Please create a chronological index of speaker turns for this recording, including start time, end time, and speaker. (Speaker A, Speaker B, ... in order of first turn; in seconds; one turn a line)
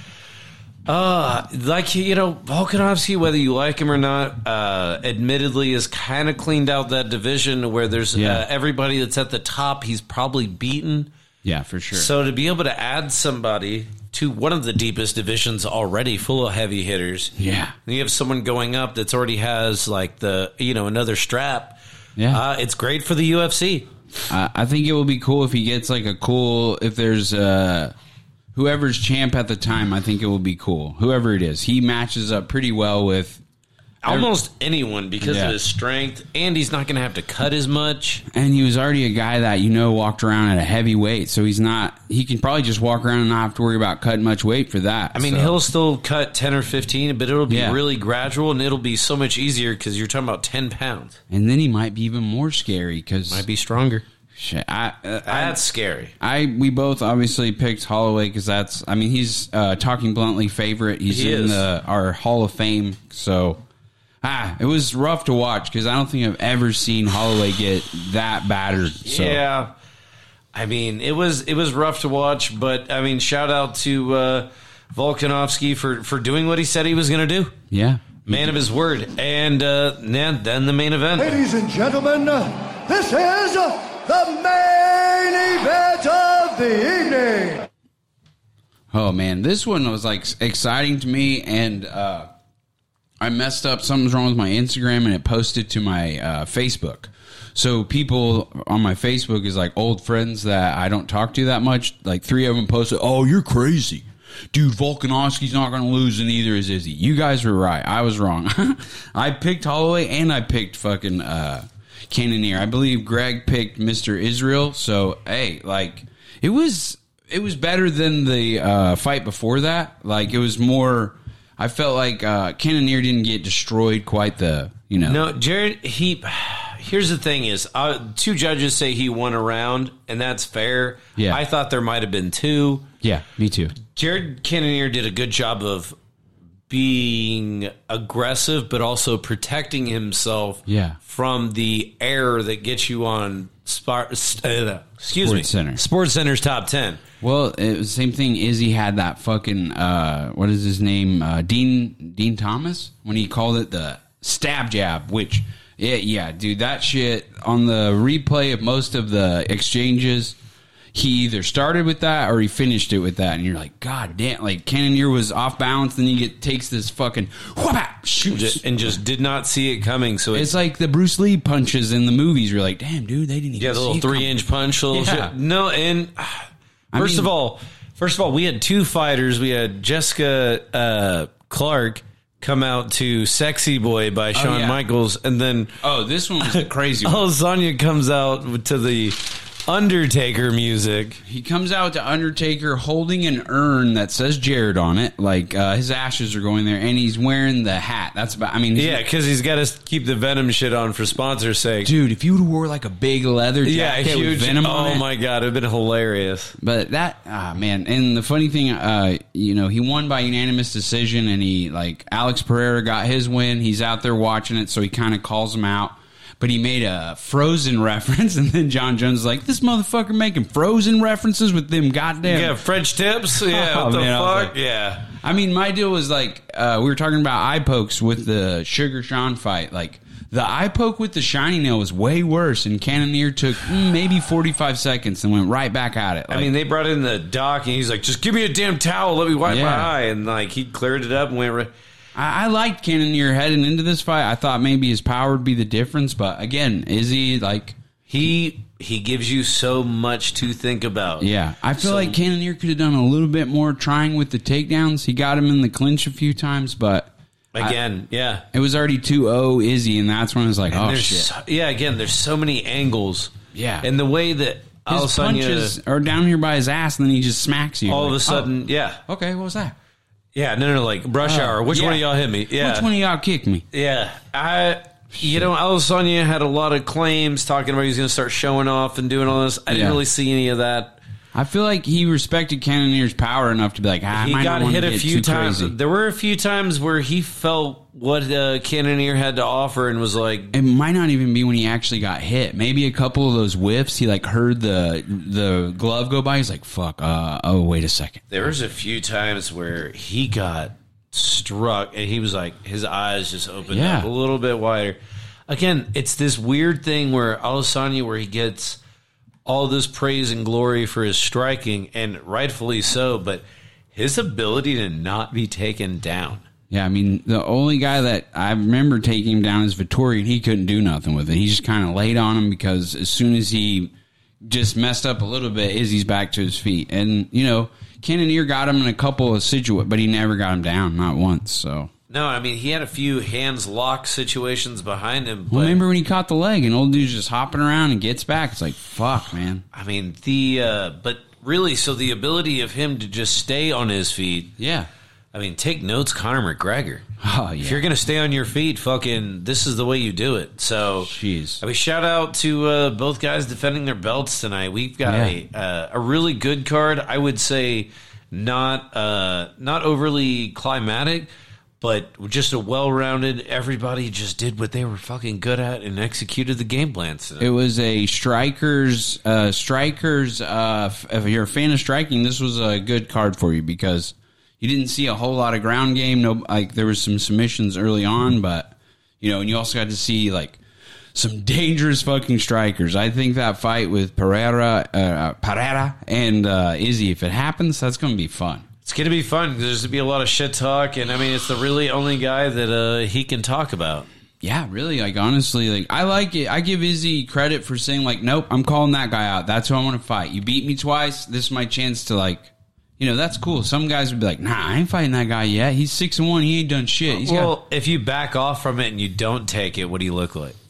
Speaker A: 0.9-11.1
Speaker B: 8.1-8.4
Speaker B: 11.4-12.1
Speaker A: 11.9-17.3
Speaker B: 17.4-17.7
Speaker A: 17.8-21.8
Speaker A: 22.3-23.9
Speaker B: 24.3-27.9
Speaker B: 28.5-33.4
Speaker A: 34.0-38.2
Speaker B: 34.0-34.3
Speaker B: 35.2-35.6
Speaker B: 38.3-45.5
Speaker A: 45.1-51.2
Speaker B: 47.5-47.8
Speaker B: 51.3-53.4
Speaker A: 53.3-54.0
Speaker B: 54.3-55.6
Speaker A: 55.3-56.1
Speaker B: 56.2-63.6
Speaker A: 61.1-61.6
Speaker B: 64.2-69.4
Speaker A: 69.0-69.7
Speaker A: 70.5-77.5
Speaker B: 77.7-78.6
Speaker A: 78.3-81.4
Speaker C: 81.2-87.7
Speaker B: 88.9-92.3
Speaker B: 93.2-125.3
Speaker A: 125.0-132.9
Speaker B: 133.0-133.7
Speaker A: 133.8-135.9
Speaker A: 136.7-147.0
Speaker B: 140.7-141.0
Speaker B: 145.1-145.8
Speaker B: 147.2-160.4
Speaker B: 160.9-168.9
Speaker A: 168.3-170.5
Speaker B: 170.3-175.3
Speaker A: 173.6-185.7
Speaker B: 176.9-177.3
Speaker B: 184.3-184.8
Speaker B: 185.8-187.3
Speaker A: 186.5-191.2
Speaker B: 191.2-199.0
Speaker A: 198.7-201.9
Speaker B: 201.8-205.1
Speaker A: 203.6-206.6
Speaker B: 206.6-222.6
Speaker A: 222.2-225.1
Speaker B: 223.4-224.5
Speaker B: 225.1-236.5
Speaker A: 236.3-241.7
Speaker B: 239.4-239.9
Speaker B: 242.1-247.8
Speaker A: 248.1-252.2
Speaker B: 251.2-257.8
Speaker A: 257.5-258.4
Speaker B: 258.5-261.3
Speaker A: 260.7-265.8
Speaker B: 263.5-263.9
Speaker B: 264.9-268.5
Speaker A: 267.9-269.0
Speaker B: 269.1-269.7
Speaker A: 270.3-272.9
Speaker B: 271.2-273.6
Speaker A: 273.7-281.0
Speaker B: 275.2-275.5
Speaker B: 279.7-280.0
Speaker B: 281.3-285.7
Speaker A: 284.1-290.5
Speaker B: 290.5-298.2
Speaker A: 298.3-308.8
Speaker B: 303.7-304.1
Speaker A: 309.4-316.4
Speaker B: 316.7-331.9
Speaker A: 332.1-335.8
Speaker B: 335.5-339.6
Speaker A: 339.7-344.5
Speaker B: 344.6-344.9
Speaker A: 345.3-347.1
Speaker B: 347.2-347.9
Speaker A: 347.6-361.3
Speaker B: 351.1-351.6
Speaker B: 355.1-355.3
Speaker A: 361.8-367.5
Speaker B: 367.4-380.6
Speaker B: 381.1-388.6
Speaker A: 388.8-394.1
Speaker B: 394.4-407.6
Speaker A: 407.1-410.6